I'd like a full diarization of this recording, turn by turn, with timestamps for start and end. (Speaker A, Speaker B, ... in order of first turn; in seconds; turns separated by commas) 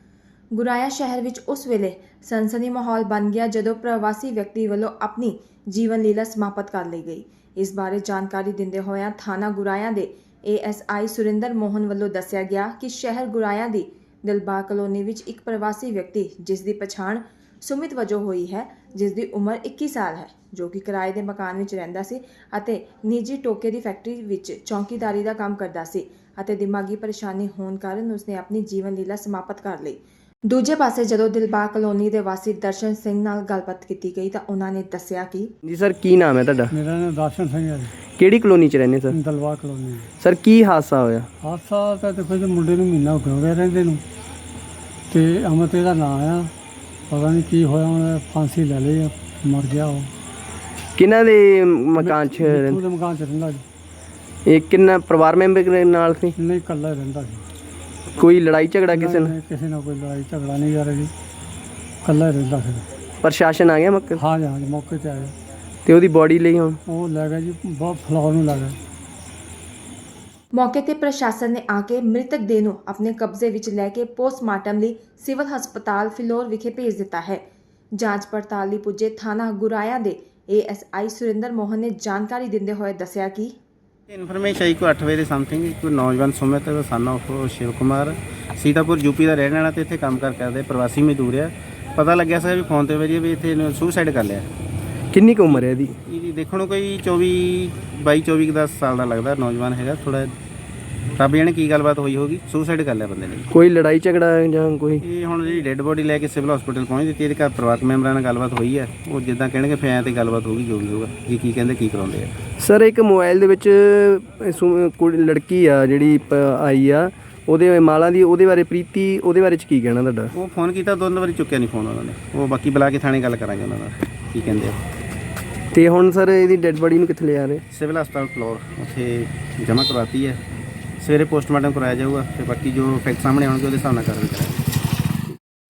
Speaker A: 0.5-35.5, Speaker B: 35.6-36.7, Speaker C: 36.7-37.9, Speaker B: 38.2-39.1, Speaker C: 39.1-40.1, Speaker B: 40.2-41.3, Speaker C: 41.4-44.0, Speaker C: 45.1-46.5, Speaker C: 47.1-50.1, Speaker B: 51.0-52.8, Speaker C: 52.0-53.6, Speaker B: 54.5-56.3, Speaker C: 56.4-57.4, Speaker B: 58.1-59.3, Speaker C: 58.9-61.1, Speaker C: 62.0-62.8, Speaker B: 63.2-64.2, Speaker C: 64.2-65.3, Speaker B: 65.8-66.8, Speaker C: 66.8-68.8, Speaker A: 70.5-77.4, Speaker A: 78.0-83.5, Speaker D: 84.1-94.5, Speaker B: 95.1-96.0, Speaker D: 95.5-100.3, Speaker D: 101.2-103.5, Speaker B: 103.5-105.0, Speaker D: 105.0-112.3, Speaker B: 112.6-120.3, Speaker D: 120.3-124.8, Speaker B: 125.7-127.6, Speaker D: 127.7-130.4, Speaker D: 131.0-134.7